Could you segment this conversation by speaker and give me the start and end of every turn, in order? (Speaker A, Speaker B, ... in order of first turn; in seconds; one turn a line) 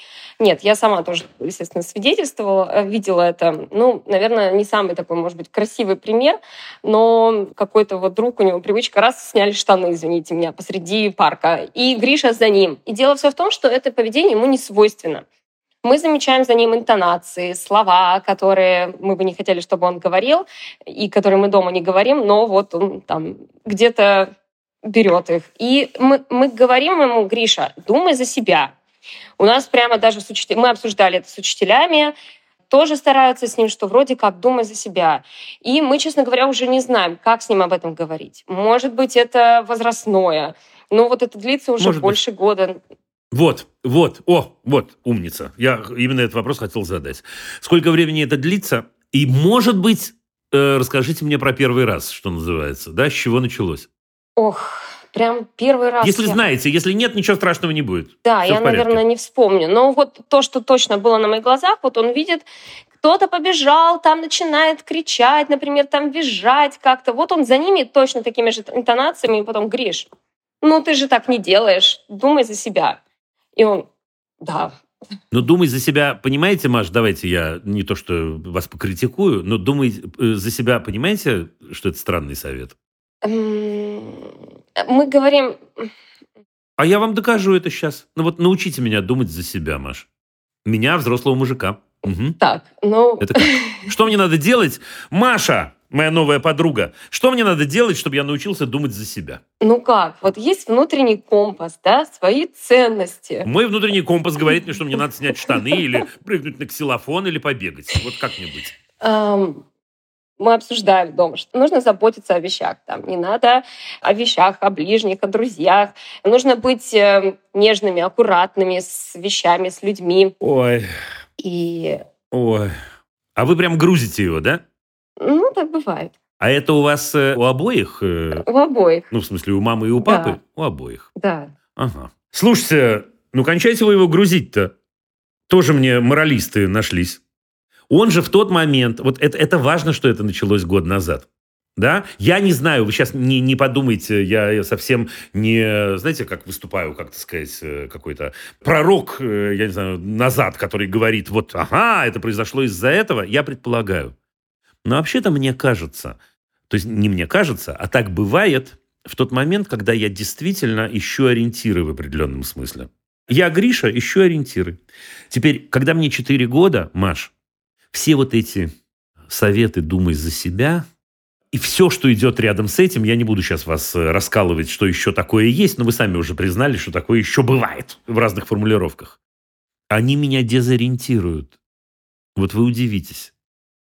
Speaker A: 0.4-15.2
Speaker A: 15.8-24.3
Speaker A: 24.9-28.8
Speaker A: 29.4-32.1
Speaker A: 32.7-42.8
Speaker B: 41.8-42.2
Speaker B: 43.3-53.9
Speaker A: 54.4-56.5
Speaker B: 56.0-59.0
Speaker A: 58.2-62.5
Speaker A: 63.0-70.1
Speaker A: 70.6-73.0
Speaker A: 73.6-73.9
Speaker A: 74.4-74.7
Speaker B: 75.3-82.7
Speaker A: 83.2-85.9
Speaker B: 86.8-90.1
Speaker B: 90.7-92.4
Speaker A: 92.4-93.9
Speaker B: 93.2-99.4
Speaker A: 99.6-103.5
Speaker B: 103.5-108.8
Speaker A: 109.0-109.6
Speaker A: 110.4-120.3
Speaker B: 120.4-120.9
Speaker A: 121.4-122.0
Speaker B: 122.3-122.7
Speaker B: 123.4-124.6
Speaker A: 125.2-126.1
Speaker B: 126.4-128.4
Speaker A: 128.3-129.1
Speaker B: 129.1-131.1
Speaker A: 130.0-130.4
Speaker A: 131.2-131.5
Speaker B: 131.8-134.7
Speaker B: 135.5-137.2
Speaker B: 137.9-141.3
Speaker B: 141.8-154.2
Speaker B: 154.8-156.2
Speaker B: 156.7-164.8
Speaker B: 165.3-167.3
Speaker B: 167.9-168.7
Speaker B: 169.3-170.8
Speaker B: 171.5-179.2
Speaker B: 179.9-181.5
Speaker B: 182.4-183.3